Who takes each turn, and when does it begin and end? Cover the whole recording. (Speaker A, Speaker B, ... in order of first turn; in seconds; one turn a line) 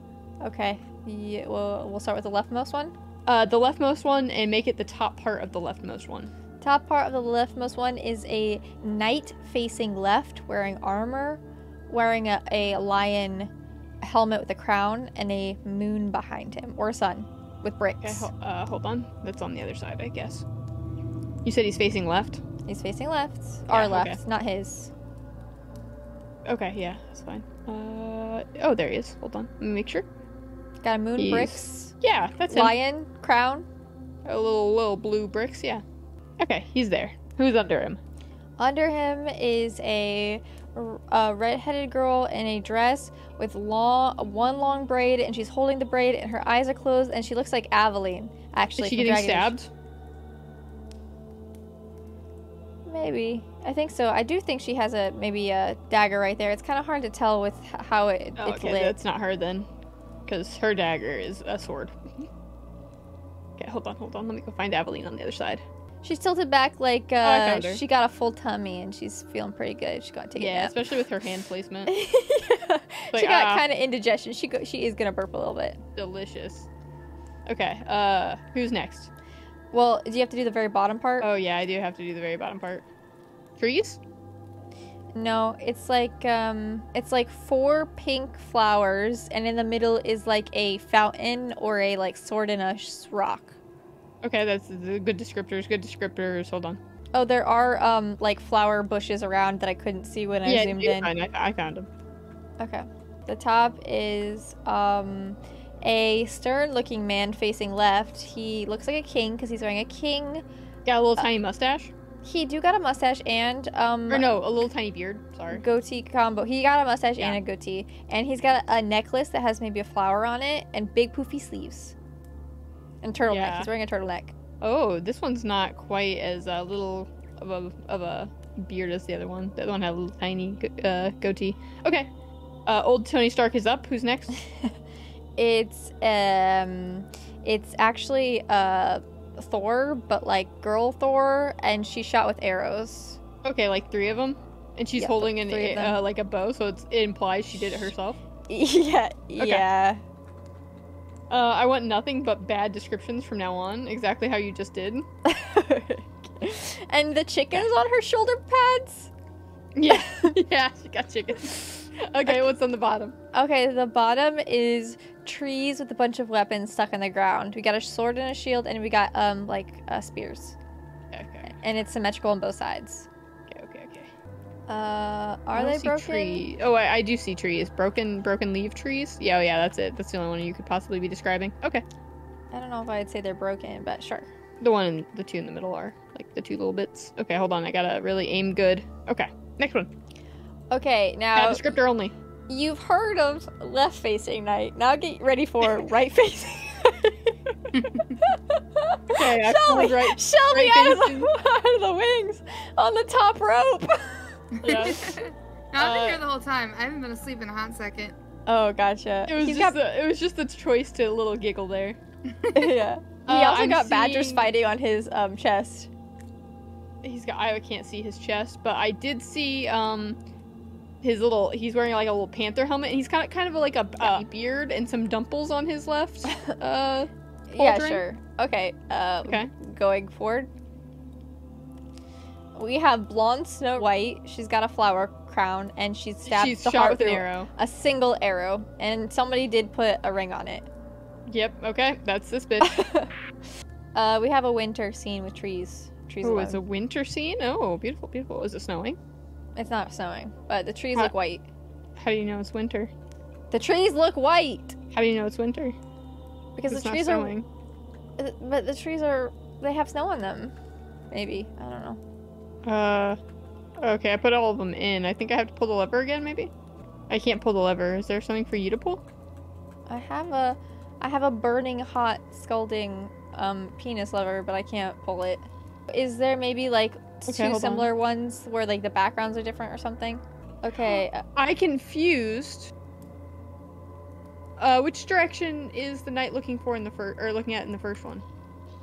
Speaker A: 0.4-3.0
Speaker B: 3.3-6.3
Speaker A: 6.6-18.3
Speaker B: 18.0-20.4
Speaker B: 21.4-22.4
Speaker A: 22.6-24.9
Speaker B: 23.7-24.2
Speaker B: 26.5-30.1
Speaker A: 30.8-31.9
Speaker B: 31.2-32.8
Speaker A: 32.5-33.7
Speaker B: 34.2-35.8
Speaker B: 36.4-38.0
Speaker A: 38.6-49.5
Speaker B: 48.8-49.7
Speaker A: 52.9-59.0
Speaker B: 58.4-59.7
Speaker B: 60.3-62.3
Speaker B: 63.6-65.6
Speaker A: 66.0-70.8
Speaker B: 67.2-67.8
Speaker B: 70.4-71.9
Speaker A: 71.9-75.8
Speaker B: 73.1-73.7
Speaker B: 76.0-76.7
Speaker B: 77.5-79.1
Speaker A: 79.7-81.3
Speaker B: 81.2-82.8
Speaker B: 83.6-84.0
Speaker A: 85.1-93.6
Speaker B: 94.2-96.8
Speaker A: 97.1-101.1
Speaker B: 100.5-101.9
Speaker A: 102.6-110.5
Speaker B: 110.8-111.9
Speaker A: 112.2-114.3
Speaker B: 114.1-115.6
Speaker A: 115.5-122.0
Speaker A: 123.0-124.3
Speaker B: 123.3-123.7
Speaker B: 124.6-132.1
Speaker B: 132.7-134.4
Speaker A: 134.5-134.7
Speaker A: 135.4-143.2
Speaker B: 143.4-148.2
Speaker A: 145.0-146.0
Speaker A: 148.5-150.0
Speaker B: 149.4-149.7
Speaker B: 151.3-155.1
Speaker A: 155.2-159.1
Speaker B: 159.8-163.2
Speaker A: 159.8-160.4
Speaker A: 163.3-170.6
Speaker B: 171.1-171.6
Speaker A: 171.4-173.1
Speaker B: 173.5-174.1
Speaker A: 174.7-176.4
Speaker B: 175.5-181.8
Speaker A: 182.5-184.3
Speaker B: 184.6-189.9
Speaker A: 190.7-191.7
Speaker B: 191.3-192.1
Speaker A: 192.5-197.6
Speaker C: 197.7-198.1
Speaker A: 198.3-205.0
Speaker B: 199.1-201.3
Speaker C: 204.6-208.2
Speaker B: 204.6-205.2
Speaker B: 205.8-206.2
Speaker A: 208.5-209.8
Speaker B: 209.3-212.0
Speaker C: 212.3-212.7
Speaker A: 212.5-215.9
Speaker B: 213.3-214.5
Speaker B: 217.0-220.2
Speaker B: 221.0-228.0
Speaker A: 224.0-224.2
Speaker A: 226.3-226.5
Speaker A: 227.5-230.5
Speaker B: 229.2-229.5
Speaker A: 232.6-240.7
Speaker B: 236.3-237.5
Speaker B: 241.3-242.8
Speaker A: 242.6-243.1
Speaker A: 243.9-246.6
Speaker B: 246.2-249.0
Speaker A: 249.6-251.5
Speaker B: 252.0-252.9
Speaker A: 253.5-254.8
Speaker B: 254.9-255.8
Speaker A: 256.6-257.3
Speaker B: 256.7-257.5
Speaker A: 258.2-260.5
Speaker A: 261.1-262.0
Speaker B: 262.6-263.2
Speaker B: 263.8-266.5
Speaker B: 267.1-269.0
Speaker A: 269.9-281.2
Speaker B: 277.3-277.9
Speaker B: 281.4-282.7
Speaker B: 284.6-288.2